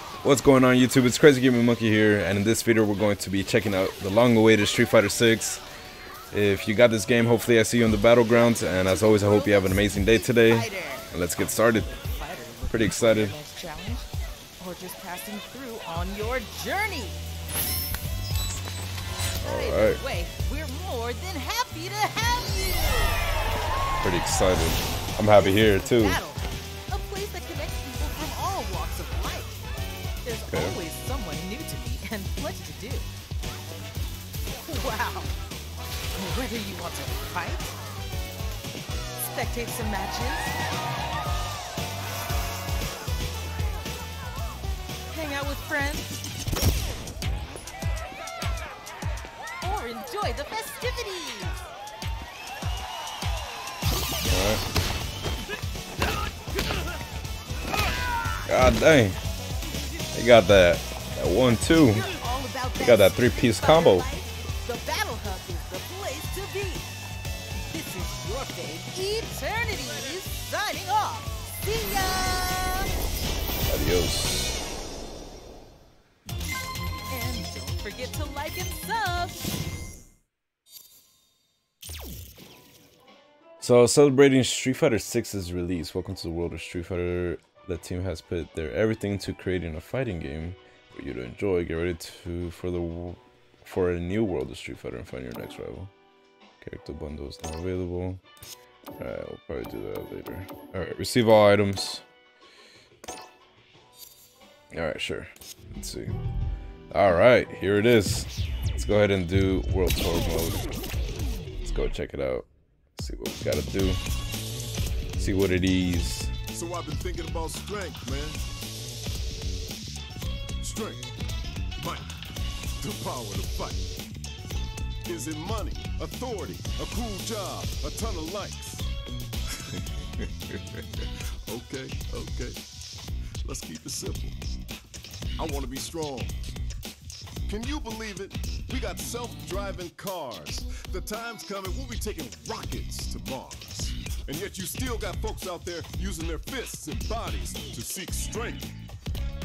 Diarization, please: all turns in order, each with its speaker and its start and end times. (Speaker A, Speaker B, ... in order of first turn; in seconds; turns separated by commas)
Speaker A: 0.2-5.6, Speaker A: 6.3-11.9, Speaker B: 8.4-11.1, Speaker B: 11.8-17.2, Speaker A: 12.7-13.3, Speaker B: 19.4-23.2, Speaker A: 19.4-20.0, Speaker A: 24.0-26.2, Speaker B: 25.2-29.6, Speaker B: 30.2-33.1, Speaker A: 30.5-30.8, Speaker B: 34.6-35.3, Speaker B: 36.1-37.8, Speaker B: 39.2-40.5, Speaker B: 45.1-46.2, Speaker B: 49.6-51.6, Speaker A: 54.3-54.6, Speaker A: 58.5-59.2, Speaker A: 60.1-62.1, Speaker B: 61.9-66.9, Speaker A: 62.8-64.1, Speaker B: 67.6-72.9, Speaker A: 73.7-74.6, Speaker B: 77.1-79.4, Speaker A: 83.6-95.9, Speaker A: 96.6-98.2, Speaker A: 99.0-102.0, Speaker A: 104.7-106.1, Speaker A: 106.9-110.7, Speaker A: 111.6-114.0, Speaker A: 115.2-116.3, Speaker C: 116.5-118.4, Speaker C: 120.6-121.1, Speaker C: 121.8-122.1, Speaker C: 122.8-123.9, Speaker C: 125.0-128.9, Speaker C: 129.5-132.6, Speaker C: 133.4-134.4, Speaker C: 135.4-136.6, Speaker C: 137.4-148.8